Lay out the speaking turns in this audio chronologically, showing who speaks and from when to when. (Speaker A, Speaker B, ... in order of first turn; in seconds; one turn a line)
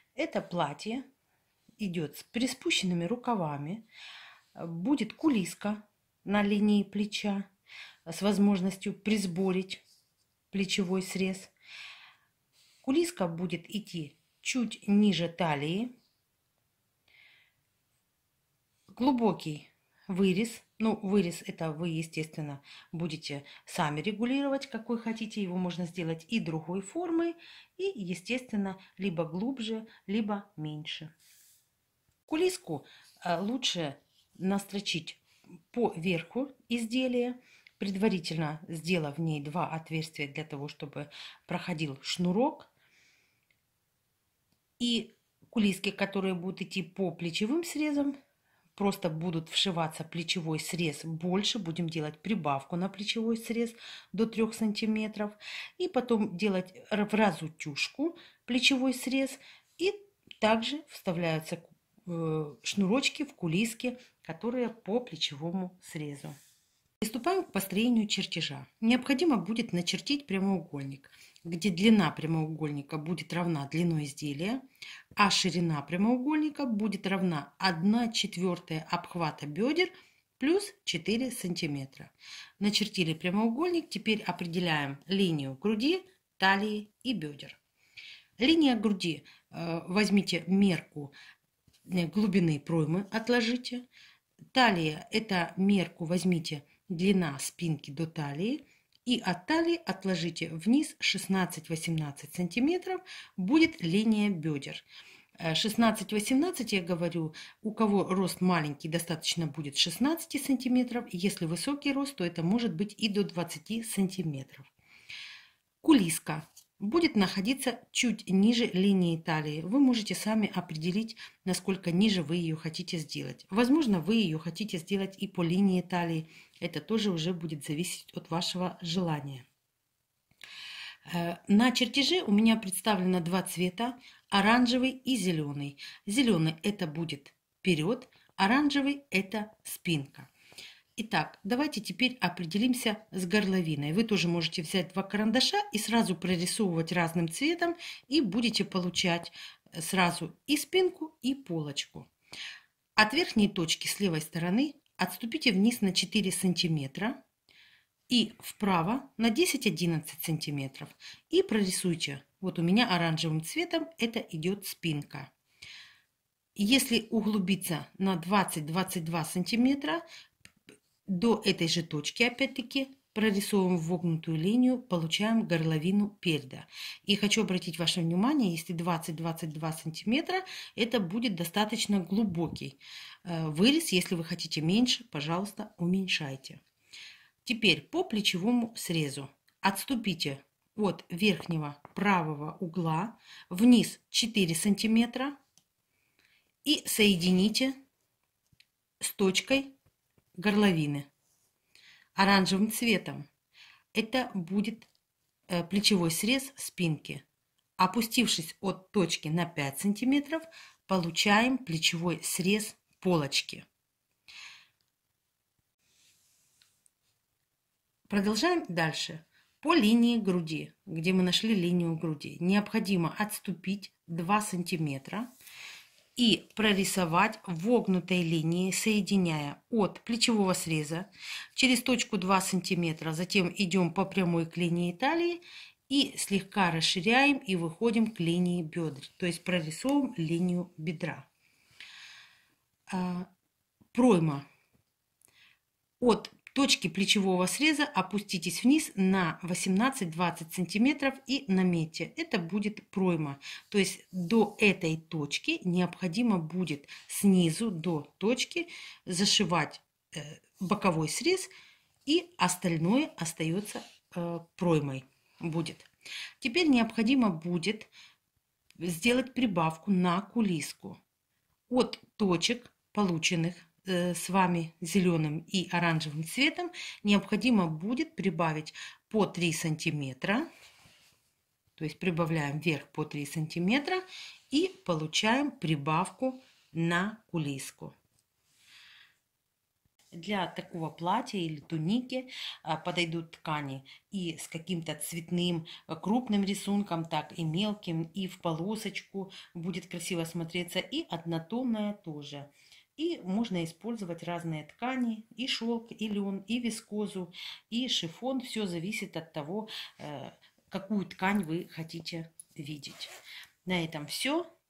Speaker A: 0.1-1.0
Speaker A: 1.8-3.9
Speaker A: 4.5-7.5
Speaker A: 8.1-9.8
Speaker A: 10.5-11.5
Speaker A: 12.8-15.9
Speaker A: 18.9-31.1
Speaker A: 32.3-42.7
Speaker A: 44.8-48.1
Speaker A: 48.8-66.3
Speaker A: 67.0-74.6
Speaker A: 75.2-87.6
Speaker A: 88.4-91.1
Speaker A: 91.8-93.8
Speaker A: 94.5-104.8
Speaker A: 105.4-114.7
Speaker A: 115.8-129.4
Speaker A: 131.1-140.3
Speaker A: 141.0-152.1
Speaker A: 153.0-157.2
Speaker A: 158.1-165.3
Speaker A: 166.6-170.0
Speaker A: 171.1-186.6
Speaker A: 187.4-195.3
Speaker A: 196.6-197.8
Speaker A: 199.0-199.7
Speaker A: 200.4-201.1
Speaker A: 202.2-203.2
Speaker A: 203.9-204.9
Speaker A: 205.5-207.2
Speaker A: 207.8-213.6
Speaker A: 218.1-225.3
Speaker A: 226.2-241.3
Speaker A: 242.9-243.3
Speaker A: 243.9-244.4
Speaker A: 246.0-261.5
Speaker A: 262.1-265.9
Speaker A: 266.4-267.9
Speaker A: 268.8-271.0
Speaker A: 271.7-280.5
Speaker A: 281.8-287.9
Speaker A: 290.1-313.1
Speaker A: 313.6-314.5